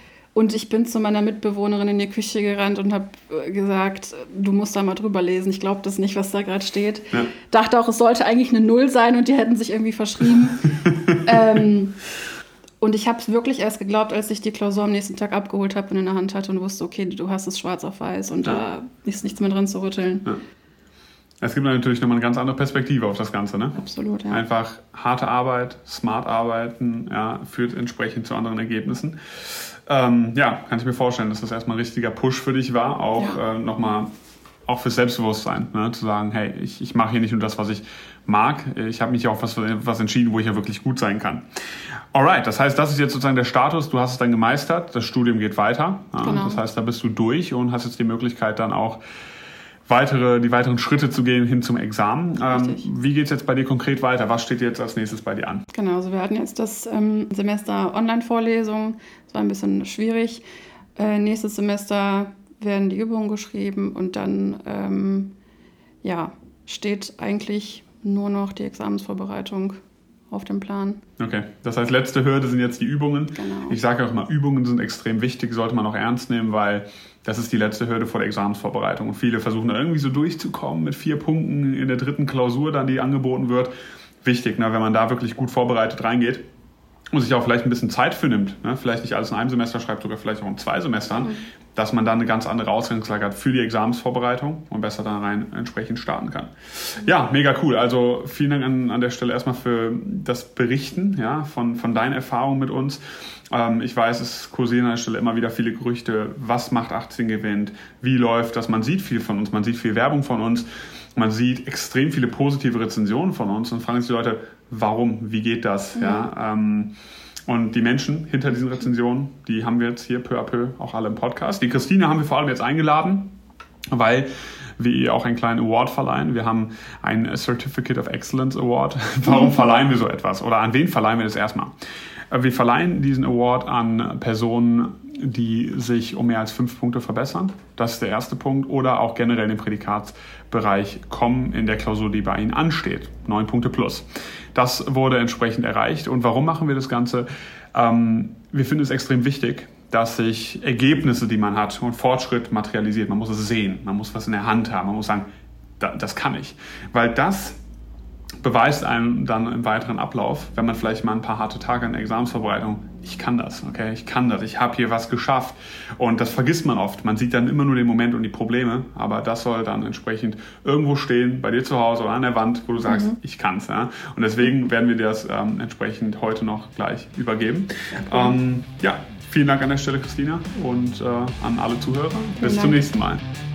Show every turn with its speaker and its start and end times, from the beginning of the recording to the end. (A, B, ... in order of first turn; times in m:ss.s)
0:00.4-0:12.0 A
0:10.8-0:11.2 B
0:12.8-0:20.3 A
0:21.4-0:34.1 B
0:23.8-0:24.4 A
0:34.7-0:41.4 B
0:42.1-0:49.0 B
0:46.2-0:46.6 A
0:49.9-0:55.6 B
0:52.5-0:52.9 A
0:55.7-1:00.4 A
1:01.0-1:05.3 A
1:06.0-1:09.8 A
1:10.3-1:11.0 A
1:11.2-1:23.7 B
1:13.4-1:13.8 A
1:24.2-1:26.4 B
1:27.1-1:56.9 B
1:56.0-1:56.3 A
1:57.5-2:03.3 B
2:03.9-2:11.7 B
2:12.3-2:35.3 B
2:35.8-2:37.6 B
2:38.4-3:03.2 B
2:52.9-2:53.1 A
2:58.0-2:58.4 A
3:02.4-3:02.8 A